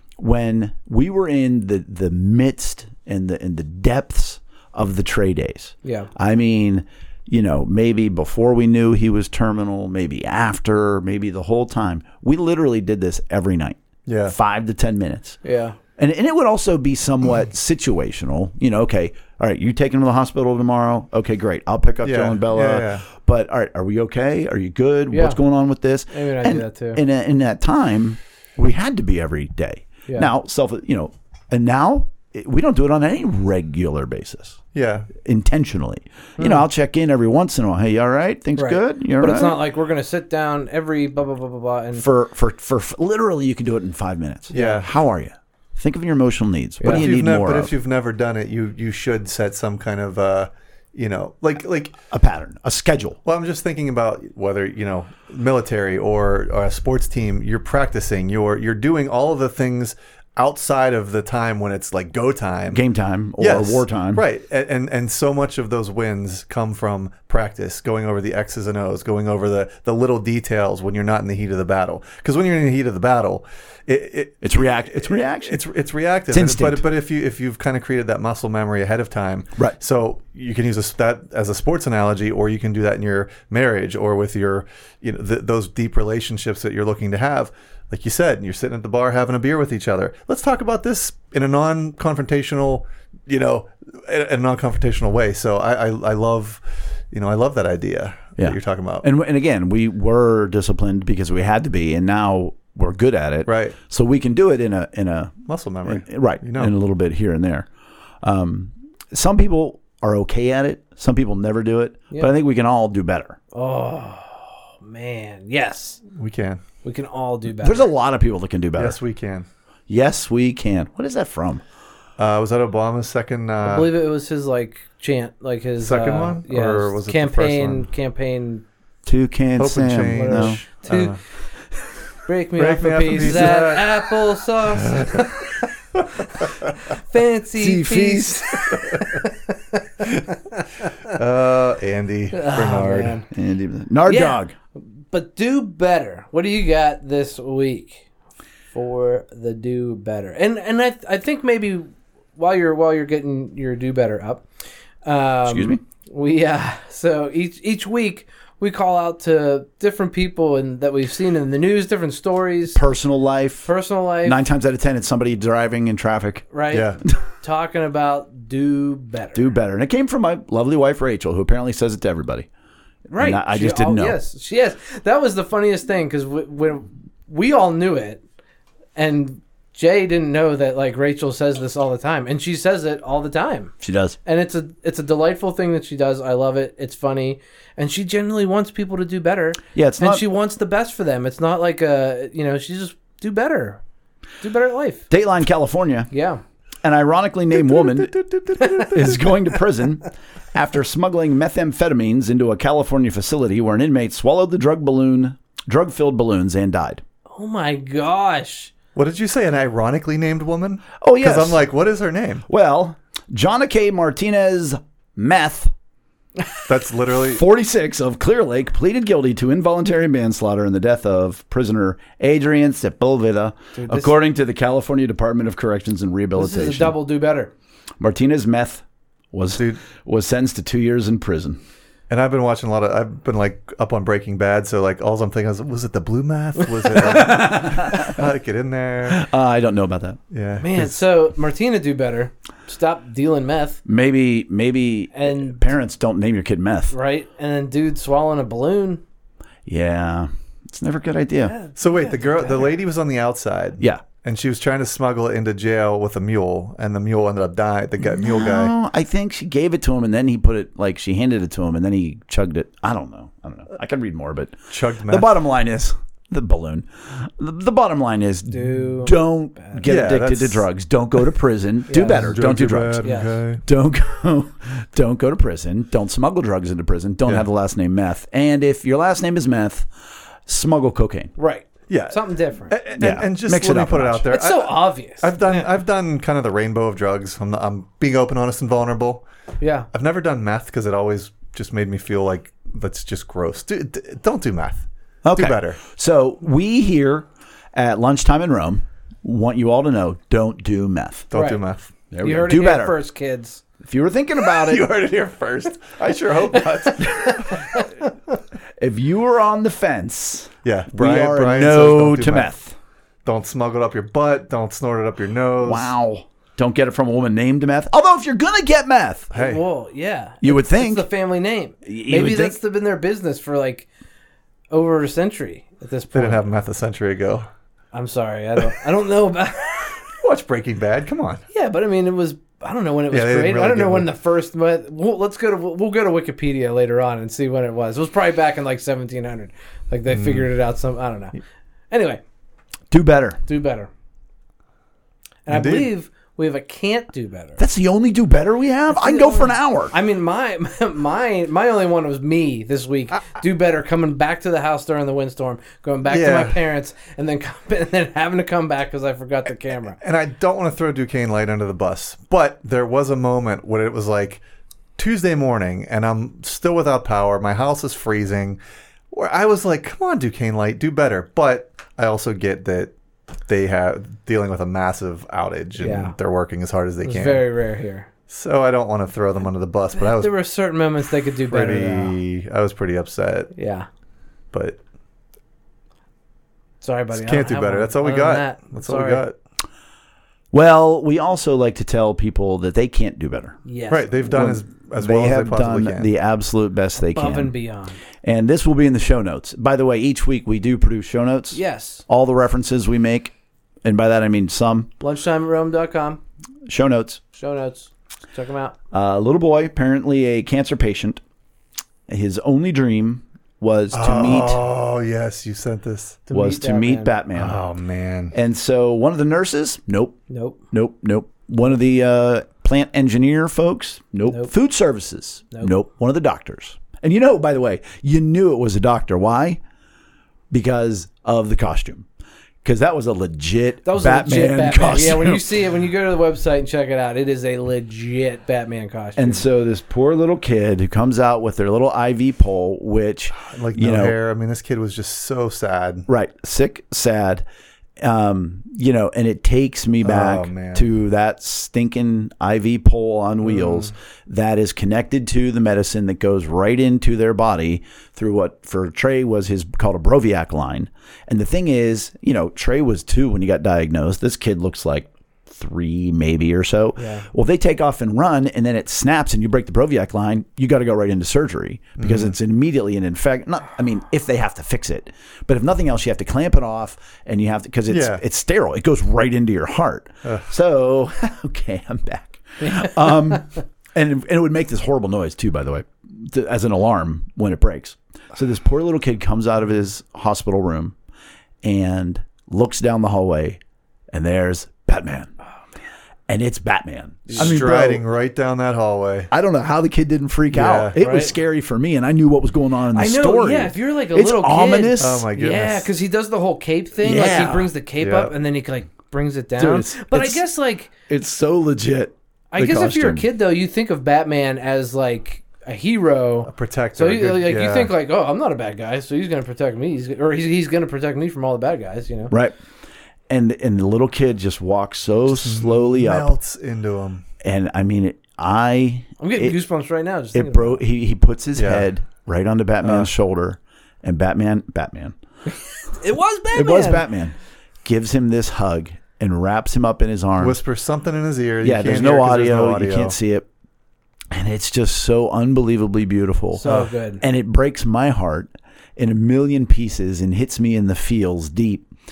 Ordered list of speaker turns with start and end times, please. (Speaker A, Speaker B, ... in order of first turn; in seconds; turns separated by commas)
Speaker A: 0.2-15.4, Speaker B: 5.8-6.1, Speaker C: 14.1-14.3, Speaker B: 15.4-15.8, Speaker A: 16.0-34.6, Speaker C: 22.0-23.0, Speaker B: 25.1-25.4, Speaker B: 26.1-27.0, Speaker C: 34.7-35.1, Speaker A: 35.1-39.6, Speaker B: 36.4-36.6, Speaker B: 38.6-42.1, Speaker A: 42.0-47.7, Speaker C: 44.5-44.9, Speaker B: 44.5-44.8, Speaker B: 46.8-47.0, Speaker C: 46.8-52.0, Speaker A: 52.1-53.2, Speaker C: 53.2-62.8, Speaker A: 62.7-64.2, Speaker C: 63.4-99.1, Speaker A: 74.4-75.6, Speaker A: 76.3-76.8, Speaker A: 98.4-107.7, Speaker C: 103.5-103.8, Speaker C: 105.5-106.7, Speaker A: 108.2-113.4, Speaker B: 113.5-116.0, Speaker C: 116.1-116.6, Speaker B: 116.8-117.9, Speaker A: 117.6-119.0, Speaker C: 118.8-119.5, Speaker A: 119.9-121.6, Speaker C: 122.2-123.9, Speaker B: 123.6-128.6, Speaker C: 125.8-127.8, Speaker A: 129.1-130.6, Speaker C: 129.6-131.2, Speaker B: 130.1-131.2, Speaker B: 132.2-135.7, Speaker C: 132.6-133.9, Speaker C: 134.8-135.4, Speaker C: 135.9-136.7, Speaker B: 136.4-140.2, Speaker A: 137.5-138.8, Speaker C: 141.1-143.2, Speaker B: 142.3-143.3, Speaker A: 143.3-144.5, Speaker B: 144.1-144.4, Speaker B: 145.1-148.1, Speaker B: 148.7-154.4, Speaker B: 155.0-162.8, Speaker A: 155.4-155.8, Speaker A: 162.7-163.7, Speaker B: 163.6-164.4, Speaker A: 164.2-166.4, Speaker B: 166.5-169.5, Speaker C: 166.7-167.0, Speaker A: 169.3-172.5, Speaker B: 173.1-178.2, Speaker A: 173.2-174.2, Speaker B: 178.9-183.7, Speaker A: 183.8-184.2, Speaker B: 184.2-193.8, Speaker A: 189.7-190.2, Speaker B: 194.4-195.1, Speaker A: 195.1-196.1, Speaker B: 196.1-196.4, Speaker A: 196.8-207.0, Speaker C: 197.5-199.2, Speaker B: 207.3-208.7, Speaker C: 208.9-212.4, Speaker A: 211.0-211.6, Speaker A: 212.5-215.7, Speaker C: 216.6-217.4, Speaker A: 217.1-227.0, Speaker B: 223.7-224.1, Speaker B: 226.3-227.5, Speaker A: 228.0-231.6, Speaker C: 229.5-229.8, Speaker C: 232.1-239.2, Speaker A: 237.0-238.1, Speaker A: 239.1-240.2, Speaker C: 240.3-241.0, Speaker B: 240.6-243.8, Speaker A: 243.8-246.9, Speaker B: 245.1-245.6, Speaker B: 246.9-249.0, Speaker A: 249.7-251.6, Speaker B: 251.4-252.7, Speaker C: 251.8-258.7, Speaker A: 253.8-254.0, Speaker A: 258.0-279.9, Speaker C: 264.7-265.3, Speaker B: 268.5-269.9, Speaker C: 269.9-270.6, Speaker B: 271.9-272.3, Speaker C: 272.0-273.6, Speaker B: 273.0-273.4, Speaker A: 280.4-281.3, Speaker B: 281.4-282.7, Speaker C: 281.9-289.2, Speaker A: 283.0-284.3, Speaker B: 284.3-285.5, Speaker B: 289.6-289.9, Speaker C: 289.9-295.8, Speaker A: 295.2-301.3, Speaker C: 301.3-301.9, Speaker B: 301.3-301.6, Speaker A: 302.1-303.0, Speaker B: 302.2-303.6, Speaker A: 303.8-304.9, Speaker C: 304.4-307.8, Speaker B: 306.7-307.8, Speaker A: 308.8-312.8, Speaker C: 310.6-312.5, Speaker C: 313.2-315.9, Speaker A: 315.6-319.3, Speaker C: 319.3-319.6, Speaker B: 319.3-323.9, Speaker A: 320.4-321.1, Speaker A: 321.9-322.6, Speaker B: 324.7-326.4, Speaker C: 326.1-327.5, Speaker B: 327.9-330.1, Speaker C: 330.2-331.4, Speaker B: 331.5-341.4, Speaker C: 333.1-334.1, Speaker C: 340.1-340.5, Speaker B: 341.9-342.2, Speaker A: 342.9-343.4, Speaker B: 343.5-343.9, Speaker B: 345.4-347.6, Speaker C: 345.5-345.9, Speaker A: 347.6-349.9, Speaker B: 348.9-360.0, Speaker C: 356.1-356.6, Speaker C: 360.0-364.4, Speaker C: 365.0-368.6, Speaker C: 369.1-372.9, Speaker C: 373.5-377.5, Speaker B: 375.8-376.1, Speaker B: 377.0-378.1, Speaker C: 378.3-380.3, Speaker B: 380.0-382.1, Speaker C: 381.5-383.5, Speaker B: 383.5-383.9, Speaker C: 384.5-384.8, Speaker B: 386.8-389.2, Speaker C: 387.1-389.4, Speaker A: 390.5-393.6, Speaker B: 393.6-394.2, Speaker C: 393.9-396.1, Speaker A: 394.3-397.5, Speaker B: 397.1-398.0, Speaker A: 398.2-404.9, Speaker B: 401.5-402.0, Speaker B: 405.0-406.2, Speaker A: 406.6-407.2, Speaker B: 407.3-408.8, Speaker A: 408.9-411.2, Speaker A: 412.1-414.6, Speaker C: 413.9-416.2, Speaker B: 416.3-417.1, Speaker A: 416.3-417.6, Speaker C: 417.3-418.3, Speaker A: 418.3-420.2, Speaker B: 420.3-420.6, Speaker A: 420.7-429.6, Speaker A: 430.5-432.1, Speaker A: 432.6-435.6, Speaker B: 433.9-439.4, Speaker A: 439.1-444.1, Speaker C: 443.3-446.1, Speaker A: 446.1-447.4, Speaker A: 448.0-490.9, Speaker C: 450.0-450.9, Speaker B: 467.0-467.3, Speaker C: 472.0-472.3, Speaker C: 477.9-478.2, Speaker B: 482.7-483.0, Speaker A: 491.6-493.6, Speaker A: 494.1-495.3, Speaker A: 496.3-498.0, Speaker B: 497.3-497.6, Speaker C: 497.4-499.3, Speaker A: 499.3-505.3, Speaker C: 500.5-501.0, Speaker B: 501.0-501.3, Speaker B: 502.9-510.9, Speaker C: 505.0-505.9, Speaker A: 507.0-507.7, Speaker C: 508.0-508.3, Speaker A: 509.6-510.4, Speaker A: 511.1-513.2, Speaker B: 512.5-522.3, Speaker C: 516.5-517.9, Speaker A: 522.3-522.5, Speaker A: 523.3-526.3, Speaker C: 525.2-527.2, Speaker A: 527.4-529.6, Speaker B: 529.2-530.8, Speaker A: 530.3-535.1, Speaker C: 531.5-531.9, Speaker C: 532.8-533.1, Speaker B: 535.9-537.0, Speaker A: 536.5-540.6, Speaker C: 540.4-543.1, Speaker A: 541.6-543.5, Speaker A: 544.3-551.9, Speaker B: 546.5-547.2, Speaker C: 546.6-546.9